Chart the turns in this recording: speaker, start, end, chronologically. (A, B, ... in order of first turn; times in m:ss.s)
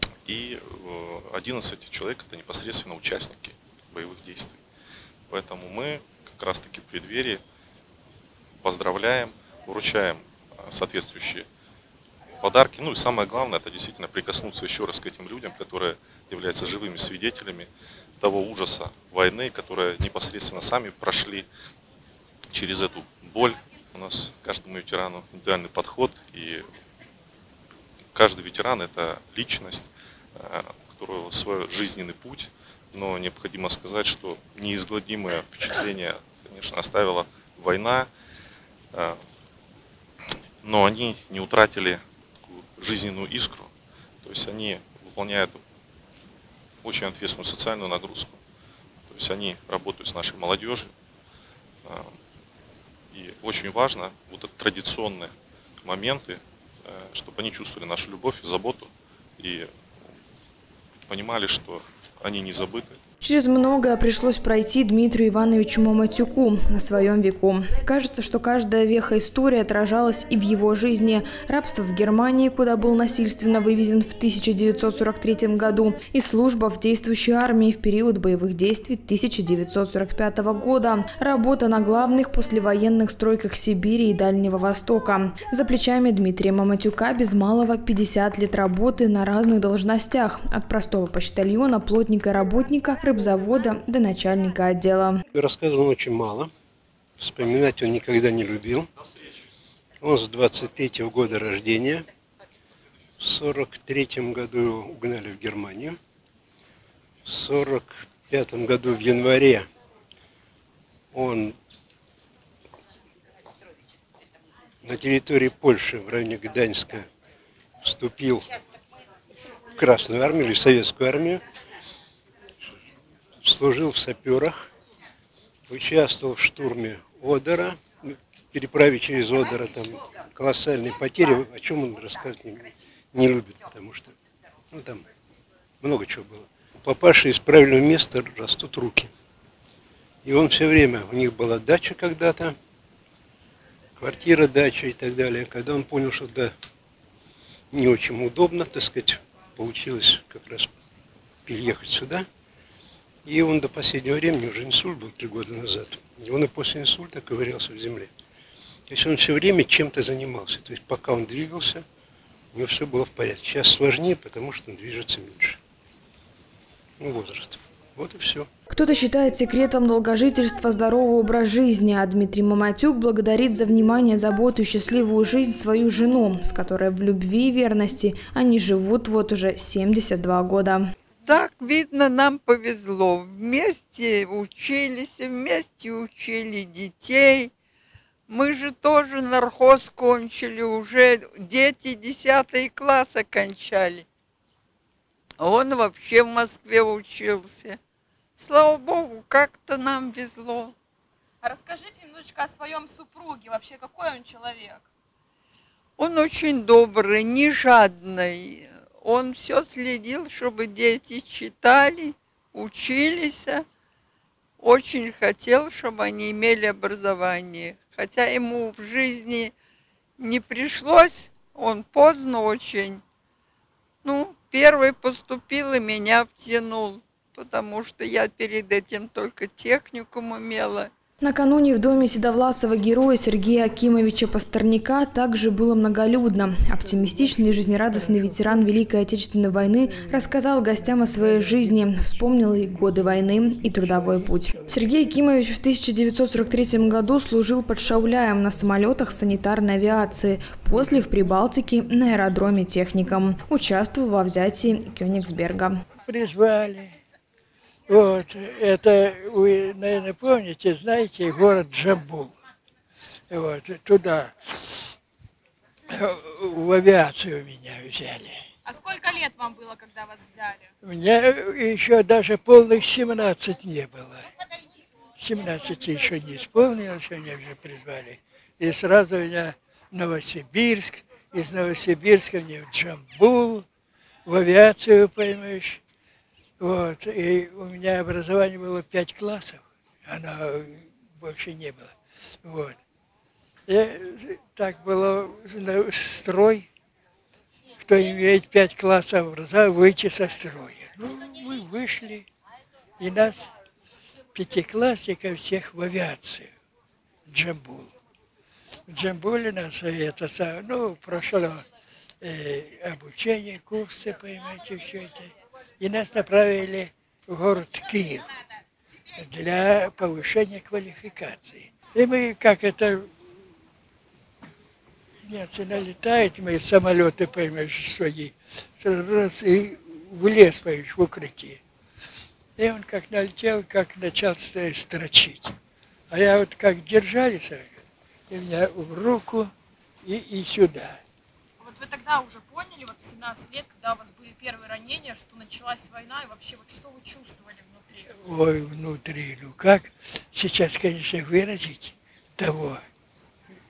0:00.2-0:04.6 A
0:05.3-0:07.4 A
0:08.6-0:11.5 A
0:12.4-0:21.5 A
0:22.5-0:26.7 A
0:28.1-0:38.1 A
0:38.9-0:39.2 A
0:40.6-0:43.7 A
0:44.2-0:45.6 A
0:46.8-0:48.4 A
0:49.1-0:50.9 A
0:53.1-0:55.3 A
0:55.8-0:59.7 A
1:01.1-1:03.0 A
1:03.2-1:35.2 B
1:35.3-1:36.5 C
1:37.2-1:38.9 C
1:40.0-1:42.0 C
1:43.2-1:46.0 C
1:47.2-1:49.7 C
1:51.1-1:51.6 C
1:54.8-1:57.1 C
1:57.8-1:58.4 C
1:59.8-2:01.4 C
2:03.4-2:04.7 C
2:05.7-2:14.2 C
2:14.7-2:15.0 C
2:15.8-2:19.1 C
2:20.2-2:22.6 C
2:24.0-2:26.5 C
2:27.7-2:30.7 C
2:31.4-2:32.3 C
2:33.2-2:38.1 C
2:38.9-2:41.8 C
2:42.5-2:45.6 C
2:47.0-2:48.5 C
2:48.7-3:00.8 B
3:01.2-3:07.5 D
3:08.3-3:14.0 D
3:15.4-3:17.8 D
3:18.4-3:20.8 D
3:21.4-3:24.9 E
3:26.0-3:33.6 D
3:34.6-3:39.5 D
3:40.2-3:43.0 D
3:44.0-3:50.9 D
3:51.2-4:15.8 B
4:03.8-4:04.8 F
4:16.0-4:16.9 F
4:17.9-4:22.3 F
4:23.3-4:24.8 F
4:25.9-4:28.4 F
4:28.6-4:30.7 E
4:30.8-4:34.3 F
4:35.2-4:43.6 F
4:44.2-4:45.8 F
4:46.6-4:52.8 F
4:53.7-4:56.7 F
4:57.8-5:02.3 F
5:03.0-5:03.5 F
5:04.3-5:06.5 F
5:07.3-5:07.9 F
5:08.9-5:11.7 F
5:12.2-5:18.3 F
5:19.2-5:23.1 F
5:25.2-5:31.6 F
5:32.6-5:35.6 F
5:36.1-5:37.8 F
5:38.3-5:39.5 F
5:40.0-5:41.0 F
5:41.6-5:48.0 E
5:48.1-5:52.8 F